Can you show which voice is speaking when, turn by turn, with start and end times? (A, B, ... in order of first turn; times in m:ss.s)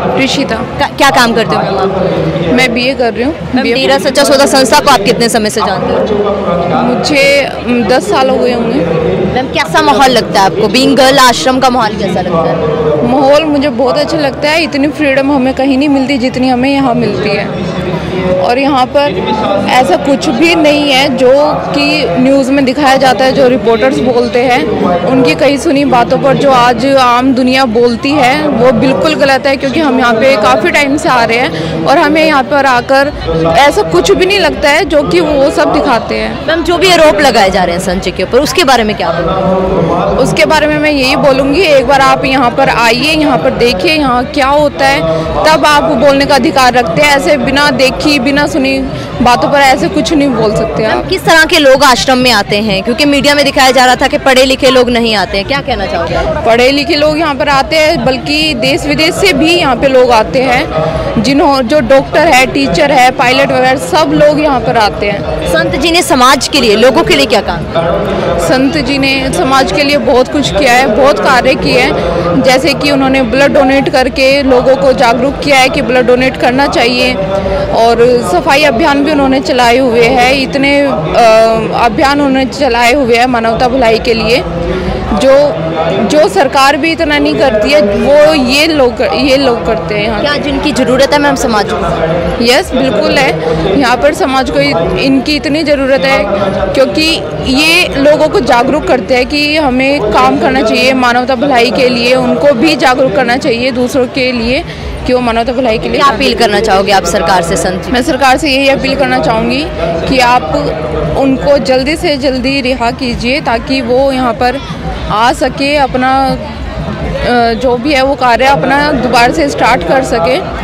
0:00.2-0:00.7 A
0:00.8-0:01.9 B
0:02.5-0:04.6 A
0:03.5-0:06.1 B
0:06.7-0:08.9 A
0:09.3-0:12.6 B
0:13.0-0:17.5 A
0:18.4-0:36.4 A
0:36.4-0:39.3 B
0:40.2-0:51.0 A
0:50.8-0:56.3 B
0:56.4-1:05.2 A
1:05.4-1:07.7 B
1:08.4-1:17.2 A
1:17.7-1:24.4 A
1:25.1-1:30.4 A
1:30.2-1:31.9 B
1:32.4-1:46.4 A
1:46.0-1:48.0 B
1:47.9-1:56.5 A
1:57.2-2:00.4 A